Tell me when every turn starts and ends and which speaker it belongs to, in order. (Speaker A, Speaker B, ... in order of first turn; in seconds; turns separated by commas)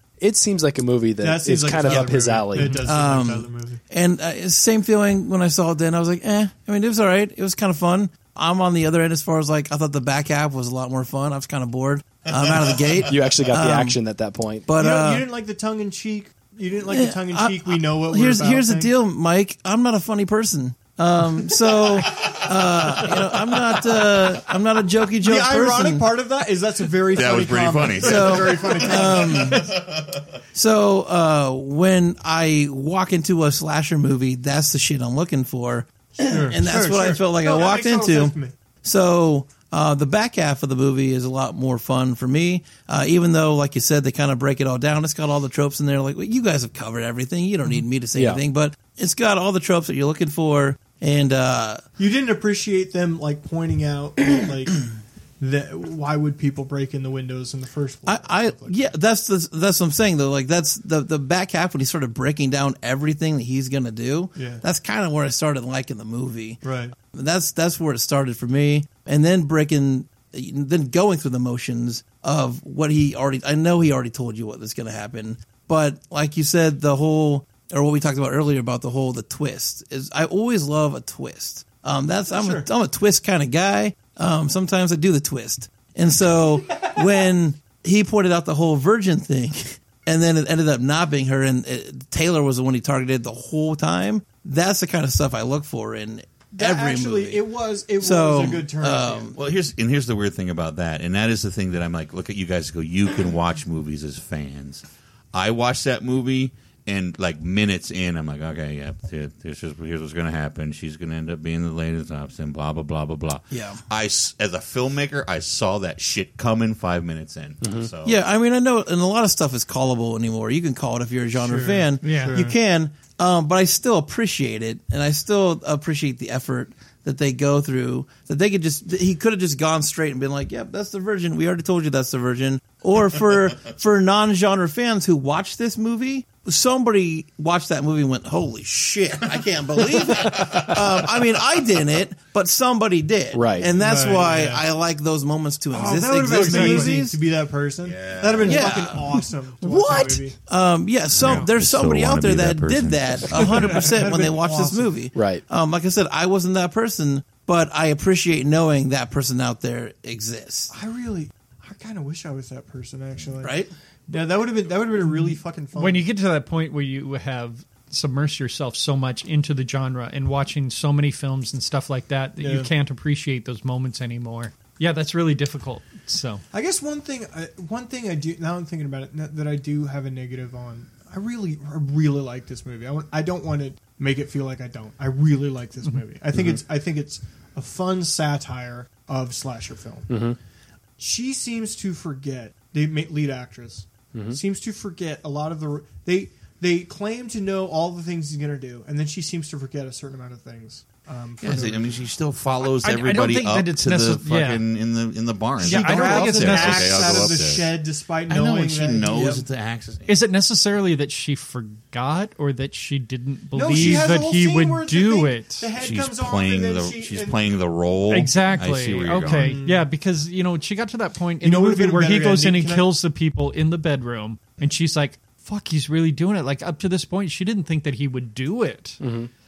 Speaker A: 0.2-2.8, Speaker B: 1.2-3.8, Speaker C: 2.6-2.8, Speaker D: 2.7-14.0, Speaker A: 13.1-14.7, Speaker D: 14.7-15.3, Speaker B: 14.8-18.9, Speaker D: 16.9-26.1, Speaker B: 25.2-29.7, Speaker E: 27.1-30.2, Speaker D: 28.0-29.7, Speaker D: 30.5-51.8, Speaker B: 36.2-38.5, Speaker A: 48.1-48.4, Speaker B: 52.0-58.9, Speaker D: 58.1-97.4, Speaker B: 64.3-64.7, Speaker B: 66.6-67.0, Speaker B: 82.3-82.7, Speaker B: 86.8-87.1, Speaker B: 96.5-99.3, Speaker D: 98.0-99.3, Speaker E: 99.3-118.2, Speaker D: 113.5-113.8, Speaker A: 117.6-117.9, Speaker D: 118.0-147.2, Speaker B: 121.4-122.6, Speaker C: 122.0-122.4, Speaker E: 140.0-141.0, Speaker A: 143.3-143.7, Speaker B: 143.7-144.6, Speaker B: 145.7-150.4, Speaker C: 146.3-147.0, Speaker E: 147.8-148.9, Speaker D: 148.4-160.7, Speaker E: 151.1-153.8, Speaker C: 151.2-151.5, Speaker B: 153.3-155.0, Speaker A: 155.2-155.4, Speaker B: 160.7-166.0, Speaker D: 163.4-163.7, Speaker C: 165.0-176.4, Speaker B: 172.4-172.7, Speaker B: 176.5-190.1, Speaker A: 186.3-186.6, Speaker A: 190.1-190.4, Speaker B: 191.0-202.1, Speaker A: 194.1-194.4, Speaker E: 201.4-207.8, Speaker C: 202.8-204.6, Speaker B: 205.6-209.4, Speaker C: 205.6-207.4, Speaker E: 208.3-210.2, Speaker C: 210.1-215.7, Speaker B: 213.5-217.4, Speaker E: 213.7-214.1, Speaker E: 215.8-219.6, Speaker C: 218.1-229.0, Speaker B: 219.3-219.9, Speaker B: 221.4-222.9, Speaker A: 229.0-229.3